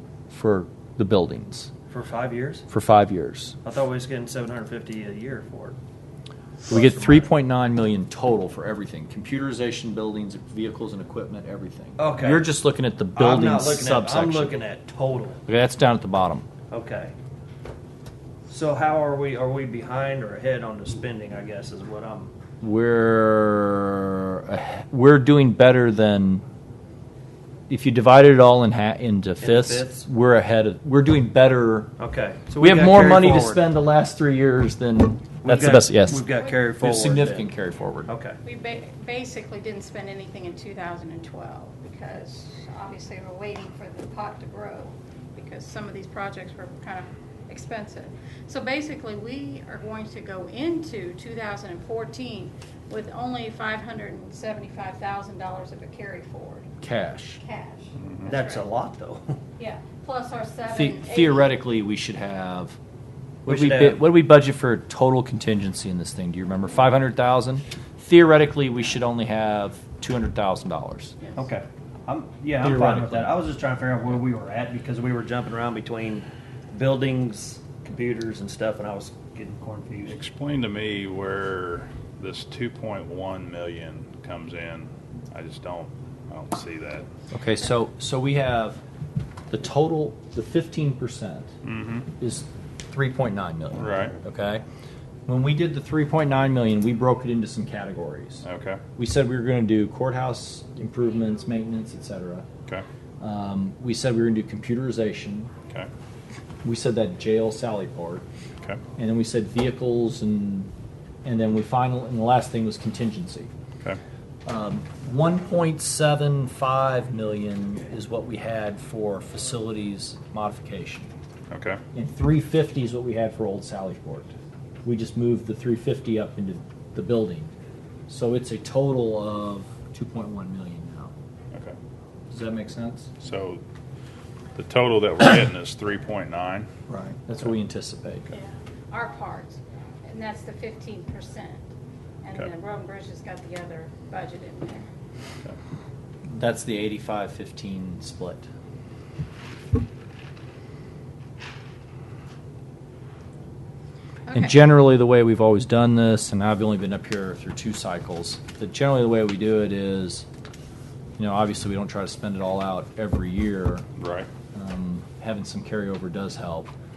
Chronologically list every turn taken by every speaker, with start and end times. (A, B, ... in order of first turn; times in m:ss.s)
0:00.3-0:01.7 A
0:01.9-0:02.6 B
0:02.7-0:03.6 A
0:03.6-0:05.8 B
0:06.7-0:07.3 B
0:06.7-0:14.6 A
0:12.0-0:12.5 B
0:13.2-0:15.4 B
0:15.5-0:16.5 A
0:16.7-0:17.1 B
0:18.5-0:22.3 B
0:22.6-0:26.4 A
0:27.7-0:31.9 A
0:29.4-0:30.0 B
0:32.0-0:33.6 B
0:32.6-0:38.1 A
0:35.4-0:37.5 B
0:38.1-0:38.4 B
0:38.4-0:56.7 C
0:56.8-0:57.4 A
0:57.4-0:58.7 C
0:58.0-0:58.3 D
0:58.3-0:59.4 B
0:59.6-1:01.6 C
1:00.7-1:02.8 A
1:03.5-1:04.0 B
1:03.5-1:11.2 A
1:11.3-1:20.2 B
1:12.6-1:13.3 A
1:20.1-1:27.1 D
1:27.3-1:28.8 A
1:29.5-1:31.5 A
1:31.6-1:32.1 D
1:32.2-1:34.6 A
1:33.8-1:34.2 D
1:35.3-1:42.5 A
1:38.4-1:38.8 D
1:43.2-1:45.5 A
1:46.6-1:48.2 A
1:49.0-1:50.7 A
1:51.2-1:53.5 A
1:54.5-2:01.1 A
2:01.5-2:01.8 D
2:01.9-2:04.3 A
2:04.8-2:07.5 A
2:08.1-2:11.1 A
2:12.3-2:13.1 A
2:13.2-2:13.6 D
2:14.6-2:16.7 D
2:16.9-2:18.3 A
2:18.3-2:21.6 C
2:22.2-2:24.9 C
2:26.3-2:28.5 A
2:34.3-2:34.6 C
2:34.3-2:40.2 A
2:41.2-2:43.9 A
2:44.0-2:44.3 D
2:44.5-2:46.7 A